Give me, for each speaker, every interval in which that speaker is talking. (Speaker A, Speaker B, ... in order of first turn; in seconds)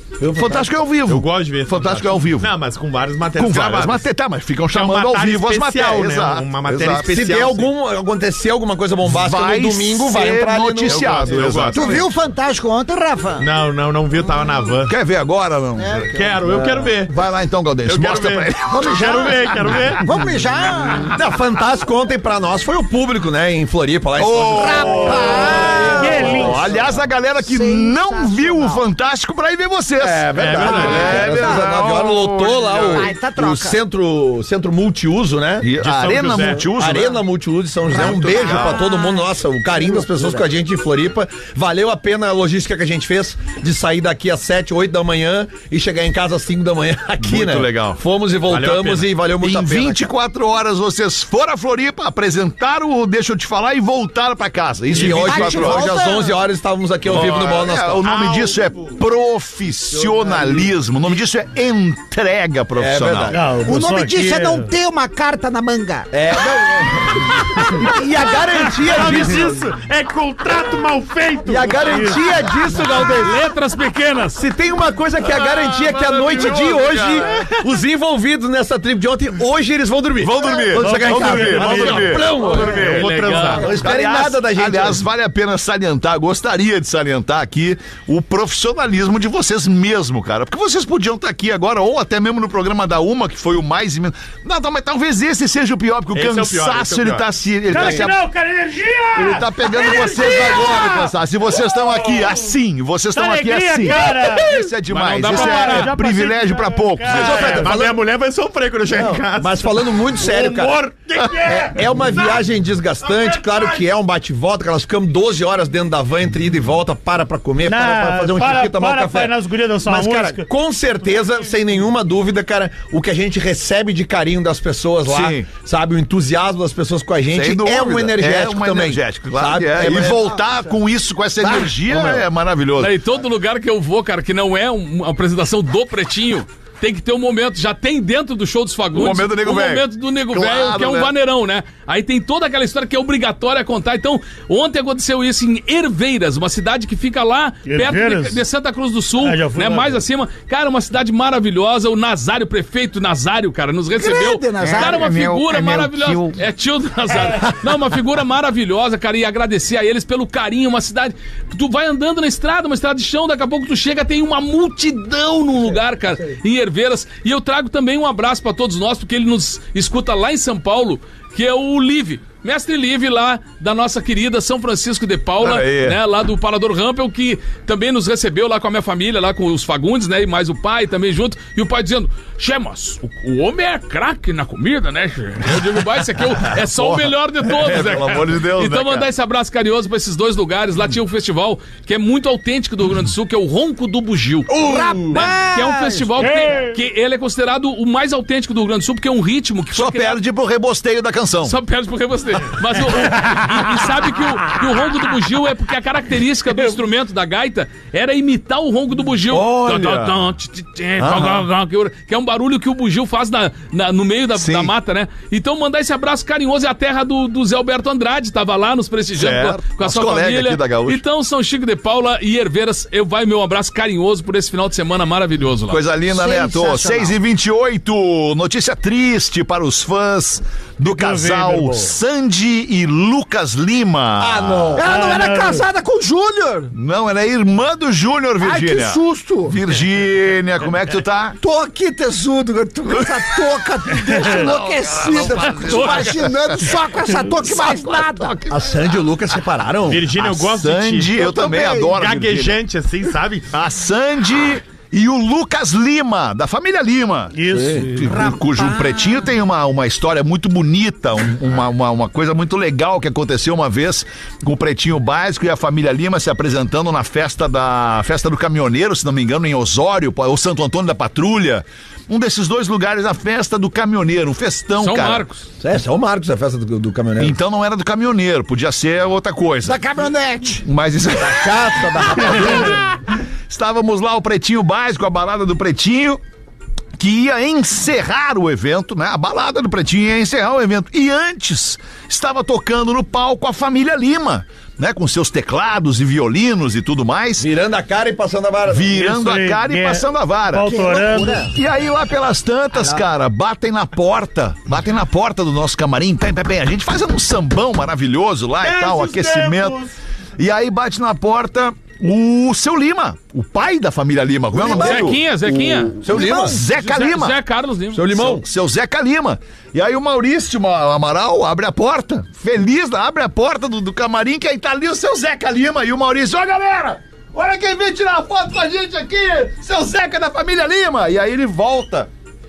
Speaker A: 0.2-0.7, 7.1-11.6, 16.4-16.9, 21.1-26.9, 30.0-35.7, 36.7-50.1, 54.9-58.0, 59.9-60.7, 62.8-63.5, 66.1-69.7, 71.5-73.4, 74.3-85.0, 107.1-108.0, 108.9-110.8, 111.4-130.4, 131.4-132.2, 234.2-234.9, 248.5-250.1, 275.6-277.4, 281.2-282.9, 297.4-299.0, 314.5-315.3, 315.9-316.6, 317.9-318.4
Speaker B: 0.3-2.5, 3.4-7.1, 9.0-12.1, 14.8-16.1, 17.1-19.9, 24.2-33.1, 35.6-37.2, 38.0-38.8, 47.2-48.0, 49.4-56.0, 57.0-63.4, 75.2-77.3, 80.2-98.2, 99.1-107.8, 125.0-125.5, 127.3-133.0, 138.9-141.1, 154.6-155.1, 175.4-176.0, 186.4-189.1, 199.7-201.6, 209.3-210.1, 211.0-211.5, 214.3-214.7, 219.1-221.0, 225.7-234.8, 236.7-241.4, 243.9-248.9, 250.1-252.6, 253.5-275.2, 277.2-279.8, 280.6-282.8, 283.5-286.2, 287.0-297.5, 298.7-300.8, 301.4-309.9, 310.4-317.4, 318.1-332.1
Speaker C: 1.1-4.1, 4.7-7.7, 10.8-12.0, 13.4-14.9, 16.1-17.1, 17.8-20.0, 30.3-31.2, 35.8-36.7, 48.5-49.1, 54.9-55.3, 58.0-59.0, 68.9-72.2, 82.3-83.8, 96.1-98.0, 107.1-112.0, 249.8-251.2, 251.8-253.5
Speaker D: 11.7-13.5, 15.8-16.1, 20.0-21.1, 24.5-26.7, 27.4-28.8, 30.9-31.7, 32.9-33.8, 37.9-40.4, 55.1-56.4, 63.6-66.1, 67.9-68.9, 153.9-156.4, 194.5-196.4, 226.1-227.1, 234.7-236.7, 238.4-239.6, 241.4-248.4, 251.2-251.9, 258.0-259.3, 279.6-280.6, 300.6-301.5
Speaker E: 25.9-26.6, 63.3-64.7, 68.8-69.5, 71.6-72.9, 80.8-82.2, 97.7-101.1, 101.8-102.3, 103.1-104.7, 105.2-107.7, 117.6-120.5, 147.7-148.4, 149.2-150.0, 196.2-196.8, 230.8-231.9, 234.8-235.6, 257.3-258.3, 298.9-301.5, 308.6-309.9
Speaker F: 72.9-74.4, 82.5-83.7, 104.9-105.9, 132.8-200.2, 201.4-225.8, 245.6-246.1, 274.8-275.4, 314.7-316.0, 316.7-318.1